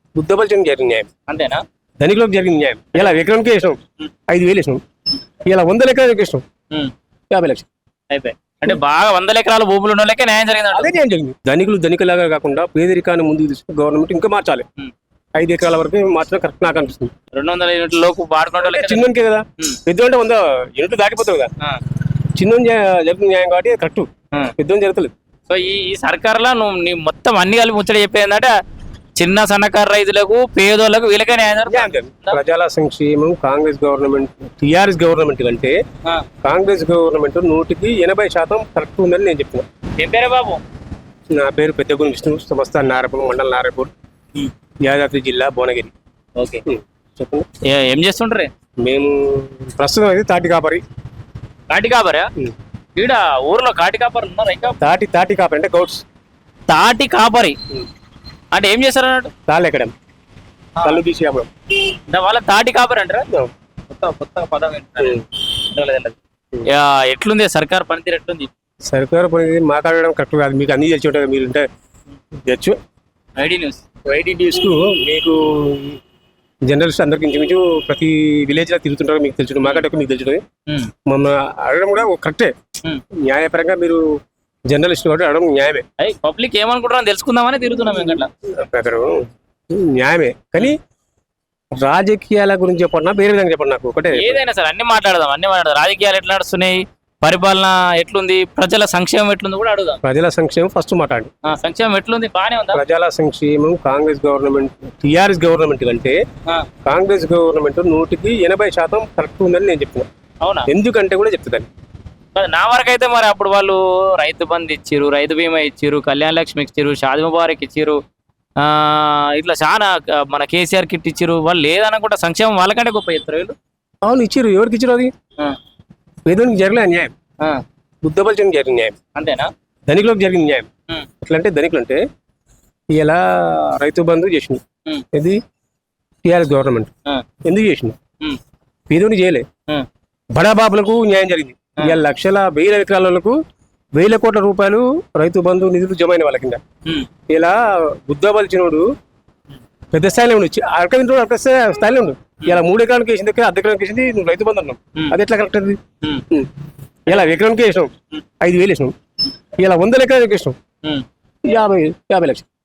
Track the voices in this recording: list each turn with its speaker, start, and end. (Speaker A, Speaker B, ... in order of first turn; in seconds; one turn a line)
Speaker A: 0.2-1.1
Speaker B: 1.3-1.6
Speaker A: 2.0-4.8
Speaker A: 5.5-6.4
Speaker A: 7.3-7.7
Speaker B: 8.1-10.9
Speaker A: 10.7-14.7
Speaker A: 15.4-17.1
Speaker B: 17.3-19.8
Speaker A: 18.6-21.5
Speaker A: 22.4-25.1
Speaker B: 25.5-28.6
Speaker B: 29.2-32.4
Speaker A: 31.7-35.8
Speaker A: 36.4-39.7
Speaker B: 40.0-40.6
Speaker A: 41.3-43.9
Speaker A: 44.8-45.9
Speaker B: 46.4-46.6
Speaker A: 46.7-47.5
Speaker B: 47.7-48.5
Speaker A: 48.8-50.8
Speaker B: 51.7-52.3
Speaker B: 53.0-54.8
Speaker A: 54.8-56.0
Speaker B: 56.7-57.6
Speaker B: 58.5-59.3
Speaker A: 59.5-59.9
Speaker A: 60.8-61.5
Speaker B: 62.1-63.3
Speaker B: 63.9-68.5
Speaker A: 65.0-65.2
Speaker A: 68.9-71.7
Speaker A: 72.5-72.8
Speaker B: 73.4-73.8
Speaker A: 74.1-76.0
Speaker A: 76.7-80.4
Speaker A: 81.1-82.5
Speaker A: 83.2-84.0
Speaker A: 84.7-85.8
Speaker B: 86.0-88.3
Speaker A: 88.5-90.8
Speaker A: 91.8-94.4
Speaker B: 94.1-100.0
Speaker A: 100.0-101.3
Speaker B: 101.5-102.8
Speaker A: 102.7-106.2
Speaker A: 106.8-110.1
Speaker B: 110.4-110.7
Speaker A: 110.7-111.7
Speaker B: 112.3-118.0
Speaker B: 118.6-123.5
Speaker A: 124.0-125.1
Speaker A: 126.3-127.1
Speaker A: 128.0-129.0
Speaker B: 129.2-129.5
Speaker A: 129.9-130.7
Speaker A: 131.2-132.0
Speaker A: 132.9-134.6
Speaker A: 135.1-135.4
Speaker A: 136.2-136.9
Speaker A: 137.4-138.0
Speaker A: 138.9-139.5
Speaker A: 140.3-143.4
Speaker A: 143.9-146.6
Speaker A: 147.3-148.9
Speaker A: 149.9-155.8
Speaker A: 157.1-158.9
Speaker A: 159.6-160.6
Speaker A: 161.4-162.5